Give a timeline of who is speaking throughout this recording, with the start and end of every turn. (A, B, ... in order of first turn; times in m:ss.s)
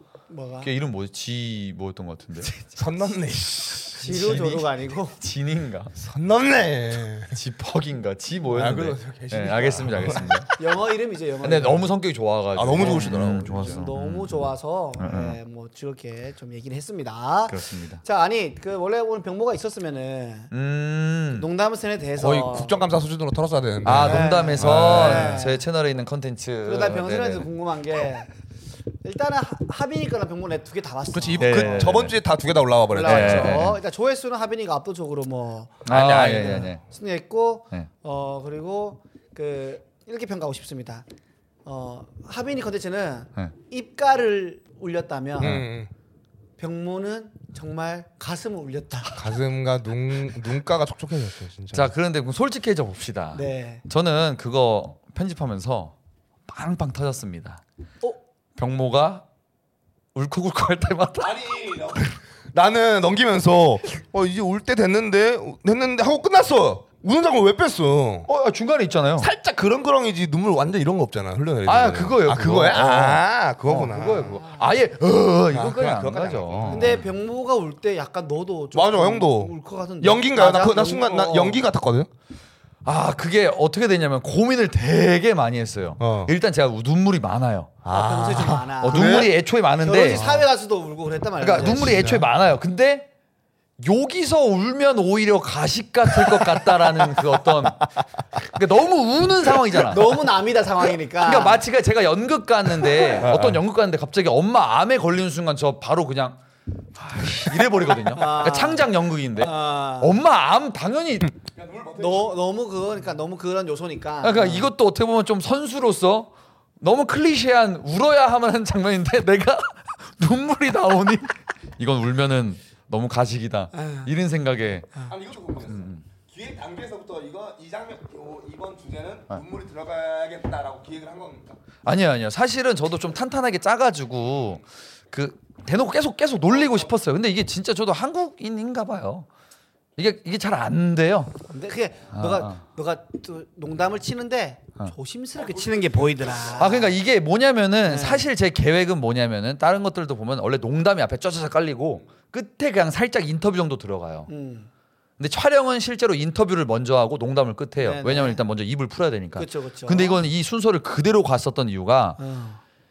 0:00.3-0:00.7 A
0:00.6-0:02.5 B
0:02.8-0:04.4 C
0:03.9-0:05.2 A
0:04.0-0:05.9 B
0:06.0-0:07.4 C
0:07.3-0:10.5 B
0:08.5-0:10.4 C
0:10.5-0:11.9 A
0:11.4-0:15.4 B
0:12.5-0:13.9 C
0:12.8-0:20.5 A
0:17.5-0:18.0 B
0:20.5-0:21.5 B
0:21.3-0:22.8 A
0:22.2-0:25.4 C
0:23.8-0:27.5 B
0:24.0-0:25.6 A
0:26.6-0:28.3 A
0:29.0-0:32.0 A
0:31.1-0:33.7 C
0:31.4-0:32.2 B
0:32.9-0:41.0 A
0:33.0-0:33.8 B
0:35.8-0:36.8 B
0:35.9-0:36.6 C
0:41.6-0:45.7 A
0:45.4-0:45.9 C
0:46.6-0:49.2 A
0:49.2-0:51.9 C
0:51.7-0:55.9 B
0:53.3-0:53.8 A
0:56.5-0:57.6 B
0:58.6-0:59.2 B
1:00.1-1:01.4 B
1:01.2-1:08.3 C
1:08.3-1:09.3 B
1:09.2-1:14.4 C
1:11.6-1:17.0 B
1:15.5-1:17.0 C
1:16.7-1:21.6 A
1:18.7-1:22.1 C
1:22.8-1:27.8 B
1:26.0-1:26.3 C
1:27.8-1:29.3 C
1:27.9-1:29.3 A
1:28.8-1:30.2 B
1:29.8-1:32.2 A
1:30.1-1:30.4 C
1:31.4-1:33.1 B
1:31.6-1:32.3 C
1:33.8-1:40.2 B
1:39.8-1:41.6 A
1:41.2-1:46.4 B
1:43.1-1:43.6 C
1:47.0-1:51.3 B
1:48.1-1:50.2 A
1:51.4-1:52.4 C
1:52.0-1:54.7 A
1:54.2-2:04.9 B
2:03.7-2:04.1 A
2:05.1-2:11.6 C
2:05.7-2:06.0 B
2:11.8-2:19.3 B
2:16.6-2:16.9 C
2:20.0-2:21.4 B
2:21.5-2:26.9 A
2:22.1-2:22.6 B
2:25.4-2:26.7 C
2:26.6-2:34.3 B
2:27.8-2:28.3 A
2:34.3-2:34.7 A
2:35.2-2:42.2 B
2:37.8-2:38.4 A
2:39.4-2:40.2 A
2:42.2-2:42.6 A